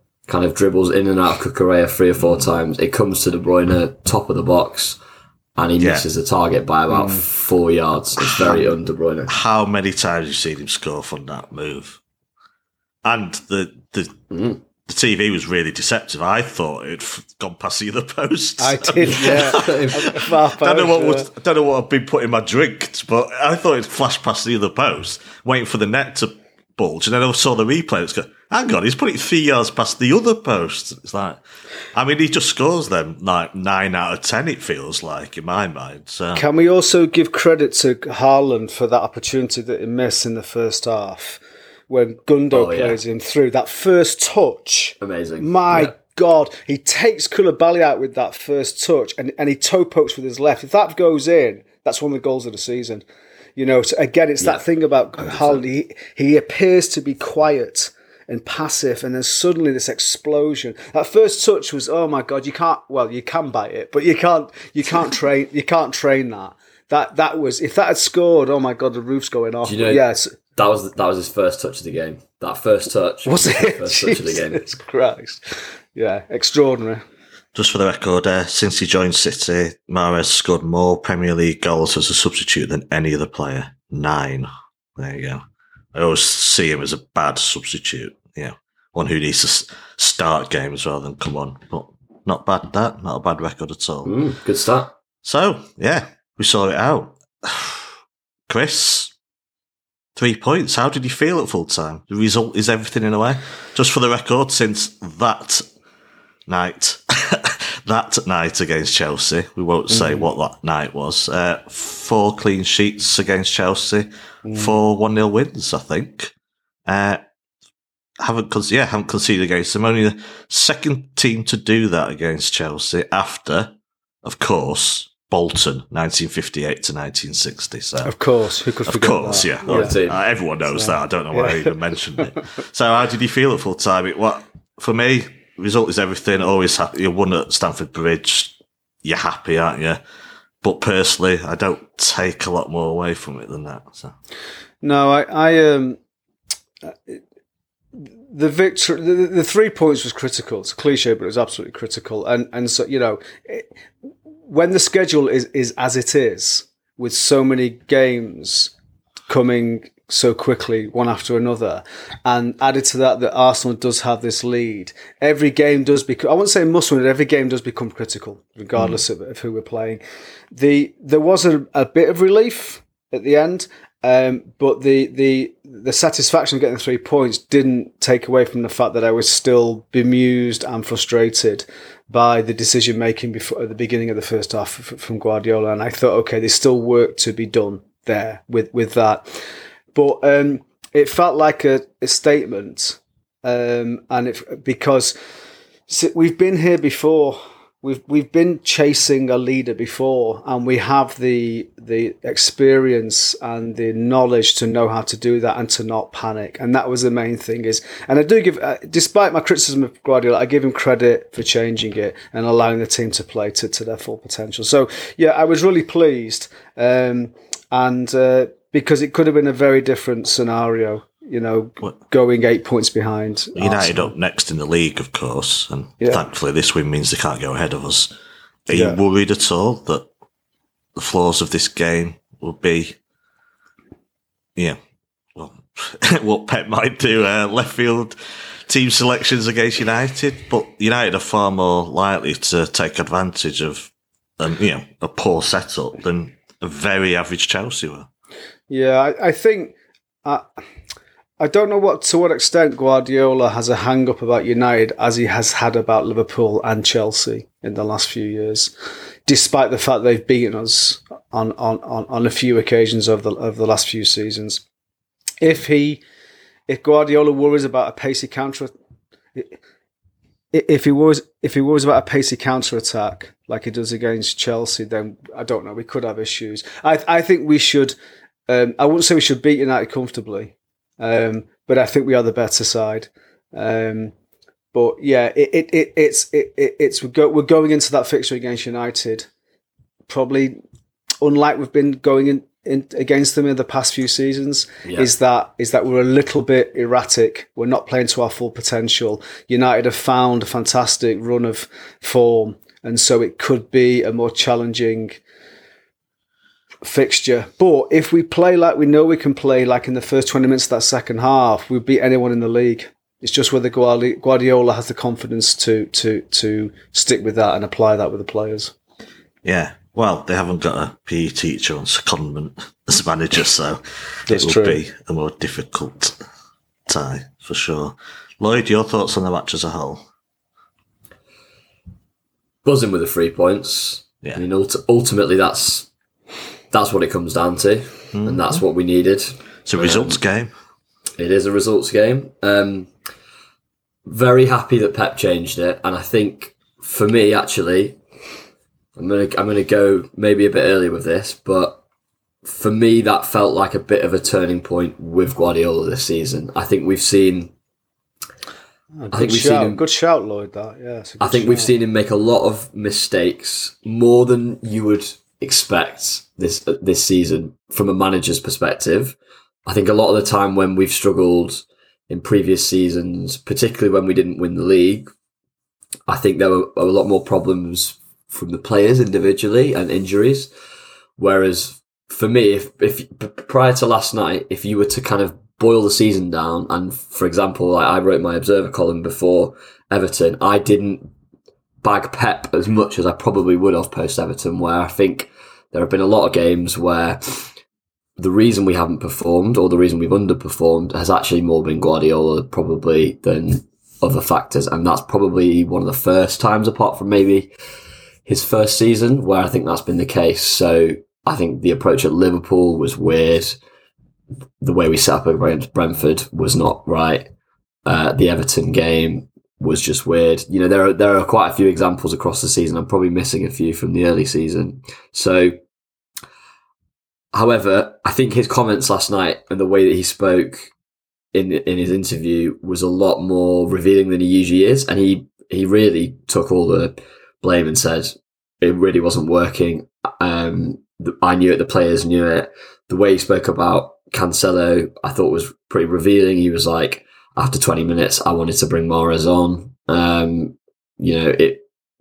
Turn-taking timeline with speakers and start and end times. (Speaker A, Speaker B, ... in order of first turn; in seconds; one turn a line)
Speaker A: 0.3-5.0
Speaker B: 2.2-2.5
Speaker A: 5.6-9.3
Speaker B: 5.8-6.0
Speaker C: 6.9-7.2
Speaker B: 8.2-8.6
Speaker B: 9.3-12.0
Speaker B: 13.0-14.2
Speaker A: 14.3-14.6
Speaker B: 14.8-31.4
Speaker C: 18.6-21.3
Speaker A: 19.1-20.1
Speaker B: 31.9-36.4
Speaker C: 36.3-53.0
Speaker A: 42.5-43.0
Speaker A: 45.0-45.9
Speaker C: 53.6-70.3
Speaker A: 55.3-55.6
Speaker A: 69.6-70.0
Speaker A: 70.5-74.6
Speaker C: 73.2-77.0
Speaker B: 77.5-85.4
Speaker B: 85.9-94.2
Speaker A: 94.0-94.9
Speaker B: 95.2-97.9
Speaker B: 98.5-99.1
Speaker B: 100.2-105.6
Speaker B: 106.5-116.3
Speaker C: 109.9-110.2
Speaker C: 114.4-114.7
Speaker B: 116.9-117.2
Speaker B: 118.2-123.7
Speaker B: 124.2-128.1
Speaker C: 128.0-129.9
Speaker B: 128.8-140.0
Speaker A: 129.7-130.2
Speaker C: 130.7-131.7
Speaker B: 140.6-144.1
Speaker C: 144.8-146.0
Speaker C: 146.8-147.2
Speaker C: 147.9-153.7
Speaker C: 154.5-158.7
Speaker C: 159.3-170.0
Speaker C: 170.5-189.4
Speaker C: 189.9-195.1
Speaker C: 195.9-224.1
Speaker B: 223.6-228.1
Speaker B: 228.7-230.1
Speaker C: 228.7-229.0
Speaker B: 230.9-233.0
Speaker B: 235.3-238.2
Speaker B: 238.7-248.1
Speaker C: 248.7-249.7
Speaker C: 251.4-258.7
Speaker C: 259.2-264.6
Speaker C: 265.4-266.0
Speaker C: 266.7-268.7
Speaker C: 270.5-277.9
Speaker C: 278.5-284.1
Speaker C: 284.7-289.3
Speaker C: 290.1-290.6
Speaker C: 291.2-305.2
Speaker A: 294.8-295.1
Speaker C: 306.8-318.7
Speaker B: 319.4-326.2
Speaker C: 324.3-324.8
Speaker B: 326.9-330.0
Speaker A: 332.6-335.9
Speaker A: 336.7-340.2
Speaker B: 338.1-338.6
Speaker B: 339.6-340.5
Speaker A: 341.2-342.9
Speaker A: 344.1-348.0
Speaker A: 348.9-351.8
Speaker A: 352.4-357.5
Speaker C: 359.0-361.7
Speaker A: 359.1-359.8
Speaker A: 361.2-375.1
Speaker A: 376.1-380.5
Speaker A: 381.2-391.1
Speaker A: 391.8-397.5
Speaker A: 398.2-407.5
Speaker A: 408.2-413.6
Speaker A: 414.6-417.3
Speaker A: 417.9-425.6
Speaker A: 427.3-430.7
Speaker A: 431.3-451.6